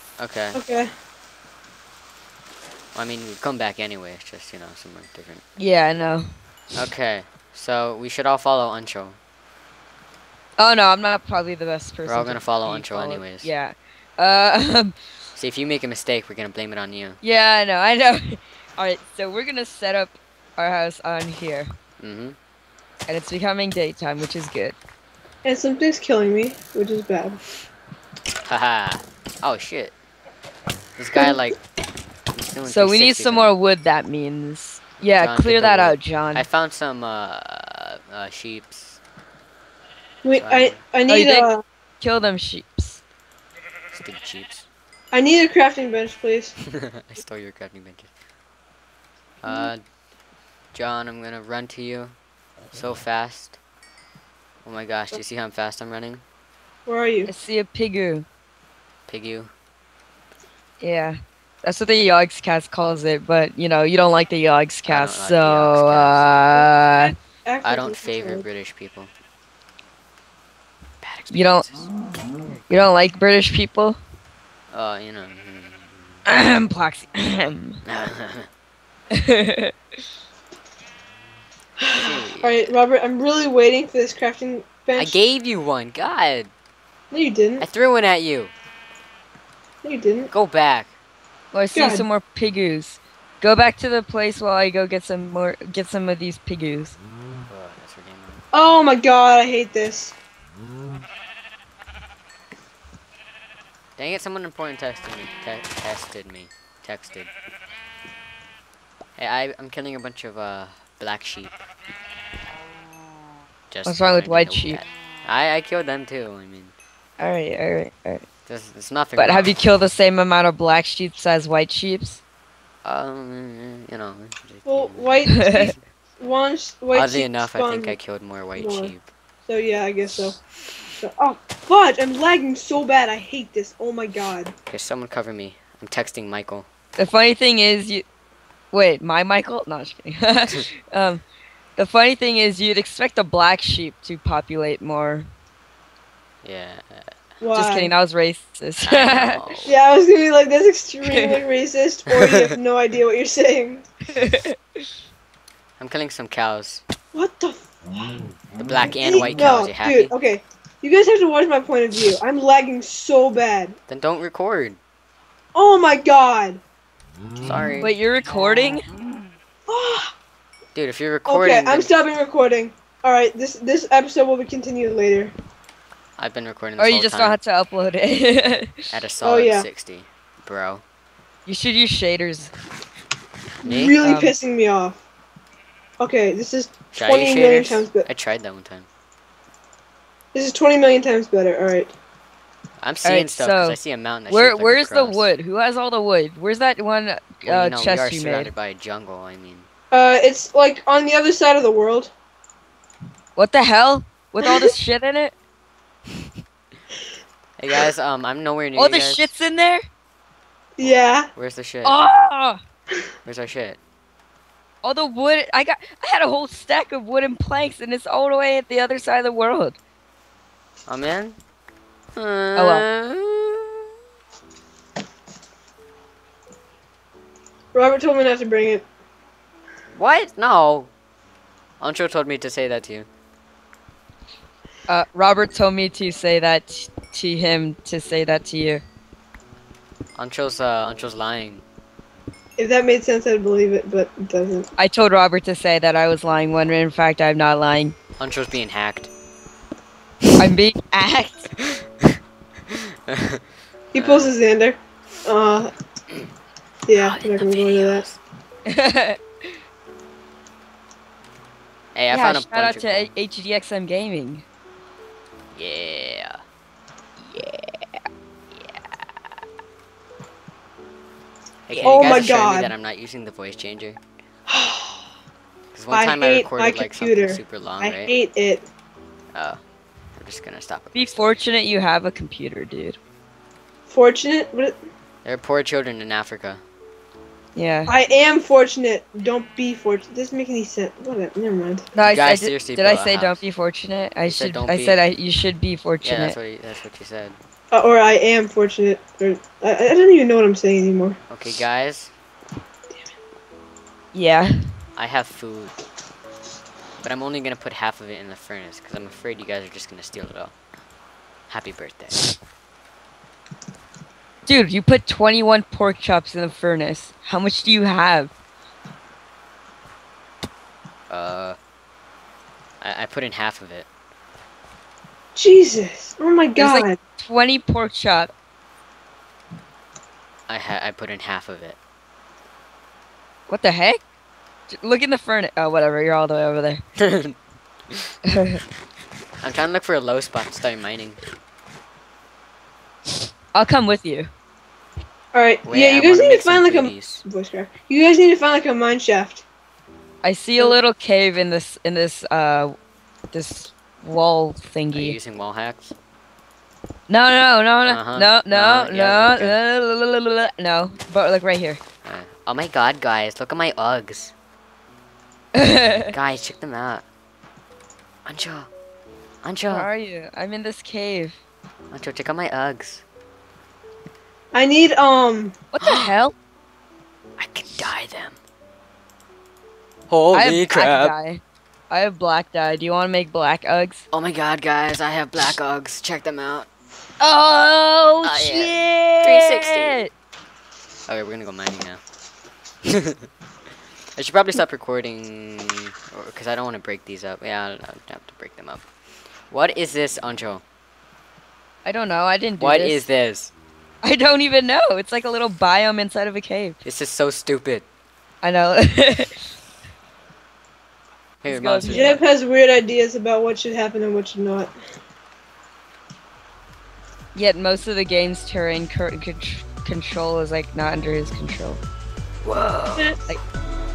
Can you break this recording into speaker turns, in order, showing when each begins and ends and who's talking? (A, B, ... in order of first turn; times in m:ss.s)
0:00.2-0:00.6 A
0:00.5-0:00.9 B
0:02.9-0:05.4 A
0:05.6-0:06.3 C
0:06.7-0:09.2 A
0:10.6-0:15.0 C
0:12.0-0:13.5 A
0:15.4-0:17.2 A
0:17.2-0:21.7 C
0:22.0-0:22.4 A
0:23.1-0:24.7 C
0:25.4-0:27.4 B
0:28.4-0:29.9 A
0:31.0-0:31.6 A
0:32.3-0:33.6 A
0:32.6-0:36.4 C
0:35.2-0:39.0 A
0:40.2-0:41.6 B
0:40.3-0:40.8 A
0:41.1-0:41.5 C
0:42.0-0:43.0 C
0:43.9-0:44.6 A
0:45.1-0:46.5 B
0:46.6-0:48.1 A
0:49.4-0:49.8 A
0:50.7-0:52.1 A
0:52.7-0:53.6 A
0:54.6-0:56.2 A
0:56.8-0:57.3 B
0:57.3-0:58.2 C
0:59.1-0:59.5 A
1:00.8-1:07.1 C
1:04.8-1:06.7 A
1:06.6-1:08.4 B
1:07.6-1:09.1 A
1:11.0-1:11.9 A
1:11.3-1:11.6 C
1:12.7-1:14.0 C
1:14.7-1:15.8 A
1:16.3-1:17.8 C
1:17.8-1:18.5 A
1:19.1-1:19.7 C
1:21.8-1:25.2 B
1:21.9-1:22.5 A
1:24.9-1:26.5 A
1:27.1-1:27.6 B
1:27.6-1:28.5 A
1:29.8-1:30.3 B
1:30.3-1:30.9 A
1:31.5-1:37.0 C
1:31.7-1:32.0 B
1:37.5-1:38.4 A
1:38.5-1:40.1 B
1:44.0-1:47.3 A
1:49.2-1:51.5 A
1:53.7-1:56.7 A
1:53.8-1:54.8 C
1:57.2-1:58.2 C
1:58.4-1:59.5 A
1:59.2-2:02.2 C
2:02.8-2:05.8 A
2:04.6-2:07.9 B
2:05.3-2:05.7 C
2:06.9-2:09.0 A
2:08.6-2:08.9 B
2:09.4-2:10.4 B
2:11.0-2:14.5 B
2:14.7-2:16.7 A
2:17.0-2:18.0 C
2:18.7-2:21.2 C
2:21.8-2:25.3 C
2:26.4-2:27.1 A
2:27.4-2:27.9 B
2:27.5-2:29.4 C
2:28.8-2:29.8 A
2:29.6-2:33.8 B
2:31.1-2:31.4 C
2:32.1-2:32.6 A
2:34.1-2:34.8 C
2:35.8-2:36.8 A
2:37.1-2:37.7 B
2:38.6-2:40.1 A
2:39.0-2:43.8 B
2:43.9-2:44.8 A
2:45.5-2:46.6 B
2:47.4-2:47.9 A
2:47.8-2:48.9 C
2:49.7-2:50.1 B
2:50.7-2:51.9 A
2:51.2-2:55.3 B
2:56.2-2:57.4 A
2:56.8-2:58.9 C
2:58.9-3:00.8 A
2:59.2-2:59.6 B
3:01.4-3:02.5 C
3:03.6-3:05.0 B
3:03.6-3:03.9 A
3:04.0-3:04.3 C
3:06.0-3:08.1 B
3:06.9-3:08.9 A
3:10.3-3:11.9 B
3:12.8-3:15.3 A
3:13.0-3:18.5 C
3:17.4-3:19.7 A
3:19.9-3:22.1 B
3:23.4-3:25.3 C
3:27.6-3:29.3 A
3:28.8-3:29.8 C
3:30.8-3:31.3 B
3:30.8-3:32.0 A
3:31.8-3:32.6 C
3:33.2-3:33.8 A
3:34.8-3:39.8 C
3:40.9-3:41.4 A
3:42.1-3:43.9 A
3:42.6-3:42.8 C
3:47.7-3:48.8 B
3:49.9-3:50.9 A
3:51.8-3:53.1 A
3:54.9-3:58.8 C
4:00.2-4:01.6 A
4:02.6-4:04.7 B
4:04.8-4:07.9 C
4:08.2-4:09.1 A
4:10.4-4:11.5 C
4:11.6-4:13.4 A
4:13.9-4:15.7 B
4:13.9-4:14.3 A
4:16.9-4:18.1 B
4:16.9-4:18.2 A
4:18.6-4:19.5 C
4:21.9-4:23.1 A
4:22.1-4:24.4 C
4:25.5-4:26.4 A
4:27.2-4:28.0 C
4:28.5-4:28.8 A
4:31.7-4:34.0 A
4:31.8-4:32.7 B
4:34.5-4:35.1 B
4:35.7-4:38.1 A
4:35.9-4:38.6 B
4:39.3-4:39.6 A
4:40.1-4:41.4 A
4:40.9-4:43.0 C
4:43.9-4:44.8 B
4:45.2-4:46.6 A
4:47.6-4:47.9 C
4:47.9-4:51.9 B
4:51.9-4:56.4 C
4:52.0-4:53.4 A
4:54.3-4:55.0 A
4:56.0-4:57.4 A
4:57.7-5:01.2 B
5:01.3-5:02.1 A
5:04.1-5:04.5 C
5:05.0-5:05.7 A
5:07.0-5:10.5 A
5:11.5-5:12.2 A
5:14.4-5:18.3 C
5:21.1-5:21.6 A
5:22.8-5:23.9 A
5:25.4-5:27.0 B
5:26.6-5:28.3 C
5:30.5-5:31.8 A
5:33.5-5:34.0 C
5:34.7-5:36.8 C
5:37.0-5:37.4 A
5:38.3-5:38.6 C
5:39.4-5:41.2 A
5:43.5-5:44.3 C
5:45.3-5:49.4 B
5:45.6-5:47.2 A
5:50.2-5:52.7 C
5:53.3-5:55.2 C
5:54.9-5:55.9 A
5:57.1-6:01.8 C
5:57.8-5:59.6 A
6:02.0-6:04.3 A
6:05.5-6:06.1 C
6:06.1-6:07.0 A
6:08.2-6:08.7 A
6:09.4-6:09.9 A
6:09.7-6:11.4 C
6:11.9-6:13.0 A
6:14.5-6:15.5 B
6:15.7-6:16.3 C
6:15.8-6:16.1 A
6:17.4-6:18.4 A
6:20.1-6:21.1 A
6:20.3-6:24.0 C
6:24.1-6:26.7 A
6:27.2-6:30.1 C
6:28.2-6:30.0 A
6:31.1-6:32.0 A
6:32.8-6:33.3 A
6:34.2-6:38.8 A
6:39.5-6:40.6 A
6:41.8-6:43.0 C
6:42.6-6:43.5 A
6:44.0-6:46.8 C
6:46.8-6:47.8 A
6:48.4-6:49.5 C
6:51.4-6:52.2 A
6:51.5-6:52.2 C
6:51.8-6:54.7 B
6:57.3-7:01.8 C
7:02.4-7:03.1 A
7:03.0-7:03.2 B